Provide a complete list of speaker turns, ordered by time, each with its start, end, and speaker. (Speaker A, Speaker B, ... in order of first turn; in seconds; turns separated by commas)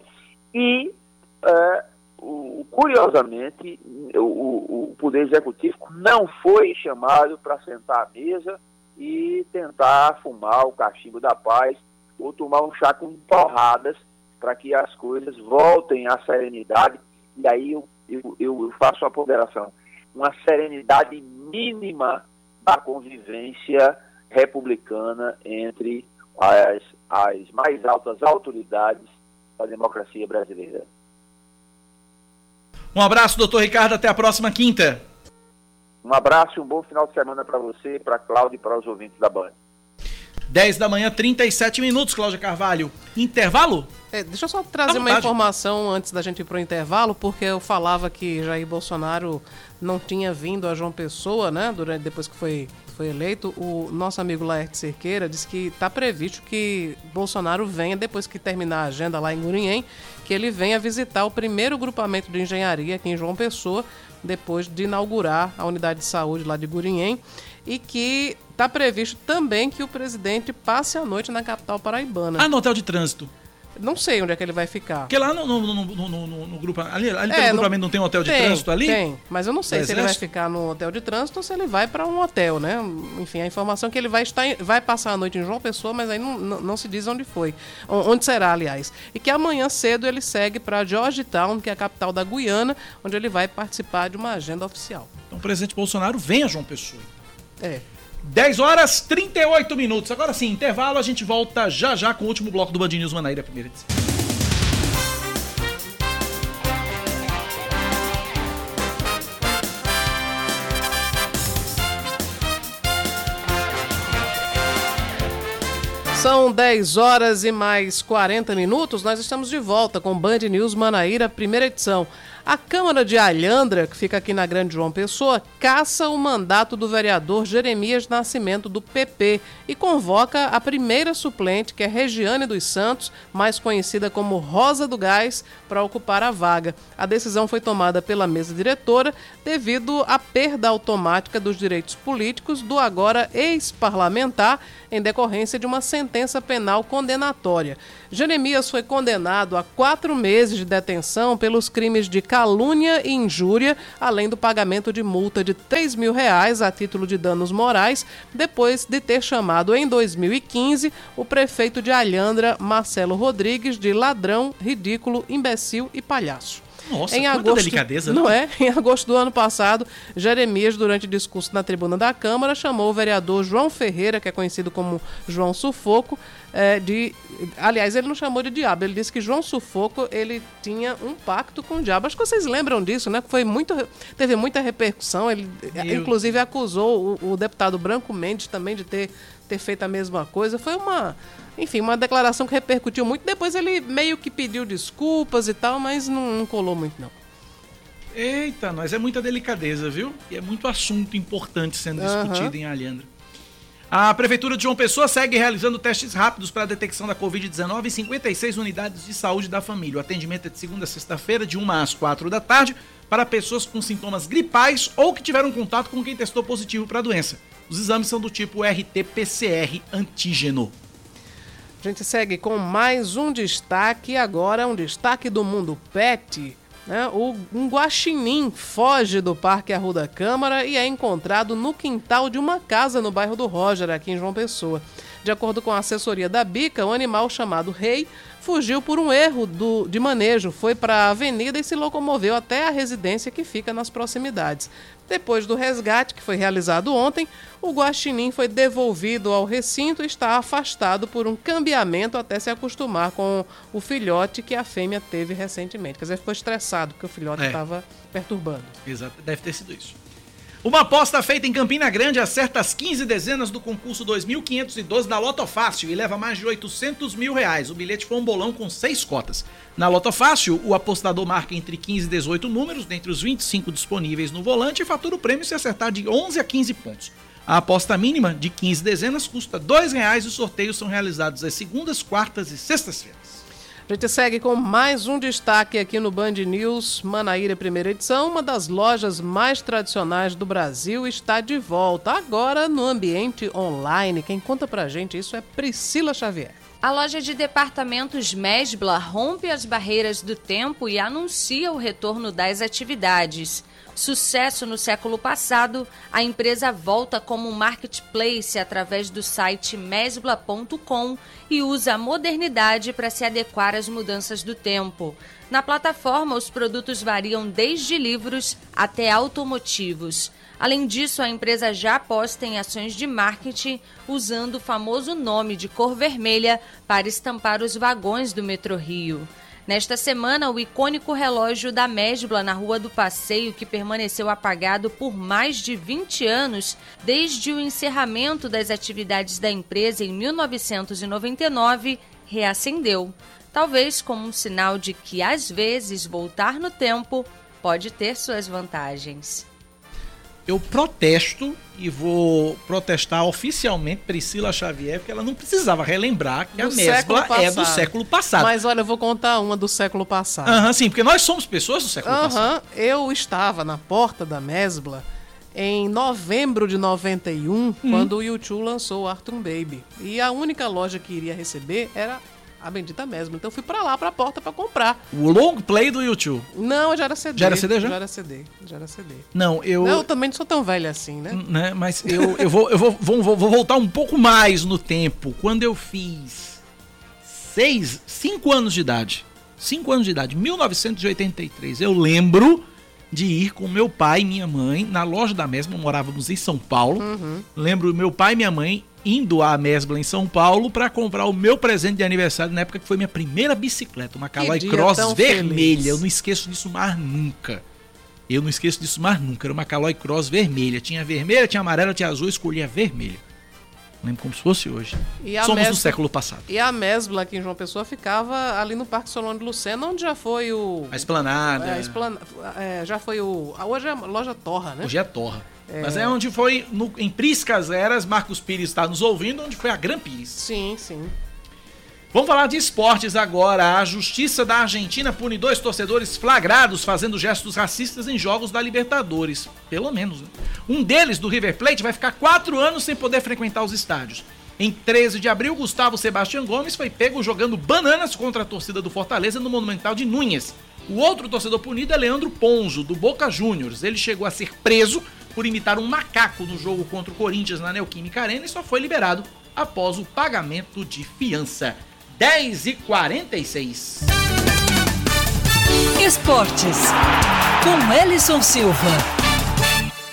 Speaker A: 0.5-30.9, Speaker B: 32.9-35.0, Speaker A: 36.0-39.5, Speaker B: 40.5-43.9, Speaker C: 44.1-72.5, Speaker B: 44.9-45.3, Speaker B: 72.4-73.3, Speaker C: 73.8-75.1, Speaker B: 75.1-79.0, Speaker C: 77.3-77.7, Speaker C: 78.2-95.1, Speaker B: 79.7-80.2, Speaker B: 95.3-97.2, Speaker B: 98.2-103.9, Speaker C: 116.1-197.1, Speaker B: 166.8-168.3, Speaker B: 185.7-186.3, Speaker B: 198.1-203.1, Speaker C: 202.0-202.5, Speaker B: 203.9-220.7, Speaker C: 221.8-258.8, Speaker B: 258.8-259.9, Speaker B: 260.6-283.4, Speaker C: 283.9-296.6, Speaker D: 296.8-349.4, Speaker B: 350.5-358.5, Speaker C: 356.6-360.6, Speaker B: 360.4-362.5, Speaker C: 362.0-375.0, Speaker B: 367.8-368.1, Speaker B: 375.1-376.5, Speaker C: 376.5-379.3, Speaker B: 377.4-378.0, Speaker B: 379.3-380.1, Speaker C: 379.8-381.4, Speaker B: 381.3-386.6, Speaker C: 382.1-382.4, Speaker B: 387.2-407.6, Speaker C: 397.0-397.4, Speaker C: 404.4-406.0, Speaker B: 408.3-413.2, Speaker B: 414.0-416.5, Speaker C: 415.2-415.9, Speaker C: 416.5-424.9, Speaker B: 420.9-422.0, Speaker B: 424.8-430.4, Speaker C: 425.7-426.1, Speaker C: 430.4-431.1, Speaker B: 432.1-464.1, Speaker E: 466.0-466.9, Speaker E: 467.6-469.1